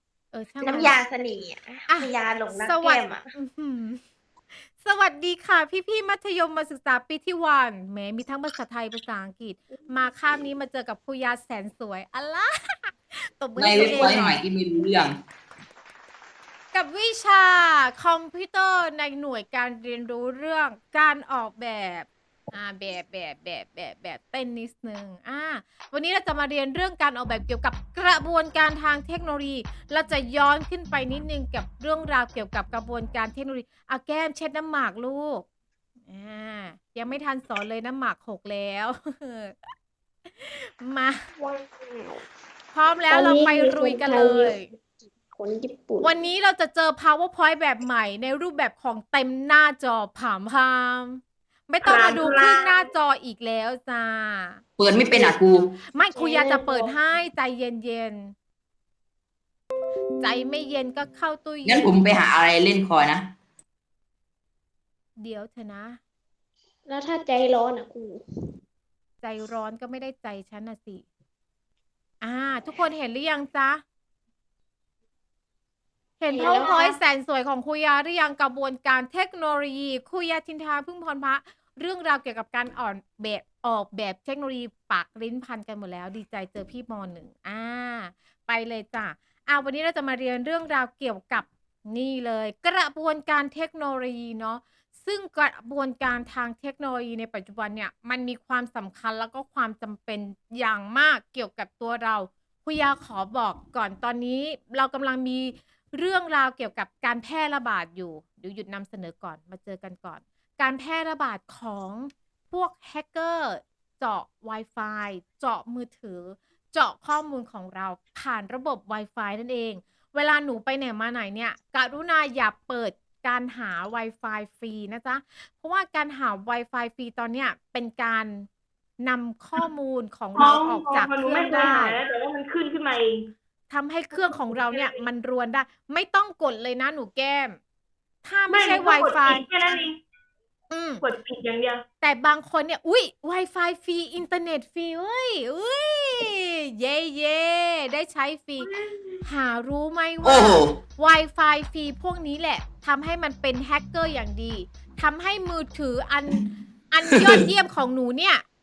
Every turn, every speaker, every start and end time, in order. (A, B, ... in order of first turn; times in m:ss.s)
0:00.3-0:01.0 A
0:00.6-0:03.3 B
0:01.9-0:04.0 A
0:04.5-0:14.4 A
0:13.6-0:15.2 C
0:16.7-0:35.4 A
0:36.1-0:39.6 A
0:40.4-0:41.2 A
0:41.4-0:42.3 D
0:42.7-0:44.7 A
0:43.1-0:46.2 D
0:46.0-0:58.3 A
0:51.8-0:52.7 E
0:54.8-0:55.7 C
0:56.1-0:56.9 D
1:00.2-1:01.9 A
1:01.6-1:03.3 C
1:05.2-1:06.0 A
1:06.8-1:08.2 D
1:09.2-1:11.0 A
1:12.2-1:13.8 A
1:16.2-2:08.5 A
1:16.3-1:17.0 D
2:09.0-2:12.0 A
2:10.3-2:13.3 E
2:13.7-2:17.6 A
2:14.1-2:15.0 E
2:18.2-2:19.5 A
2:18.5-2:20.0 E
2:20.7-2:21.0 A
2:21.0-2:21.8 E
2:22.0-2:28.7 A
2:28.6-2:29.2 E
2:29.2-2:38.4 A
2:30.2-2:30.7 C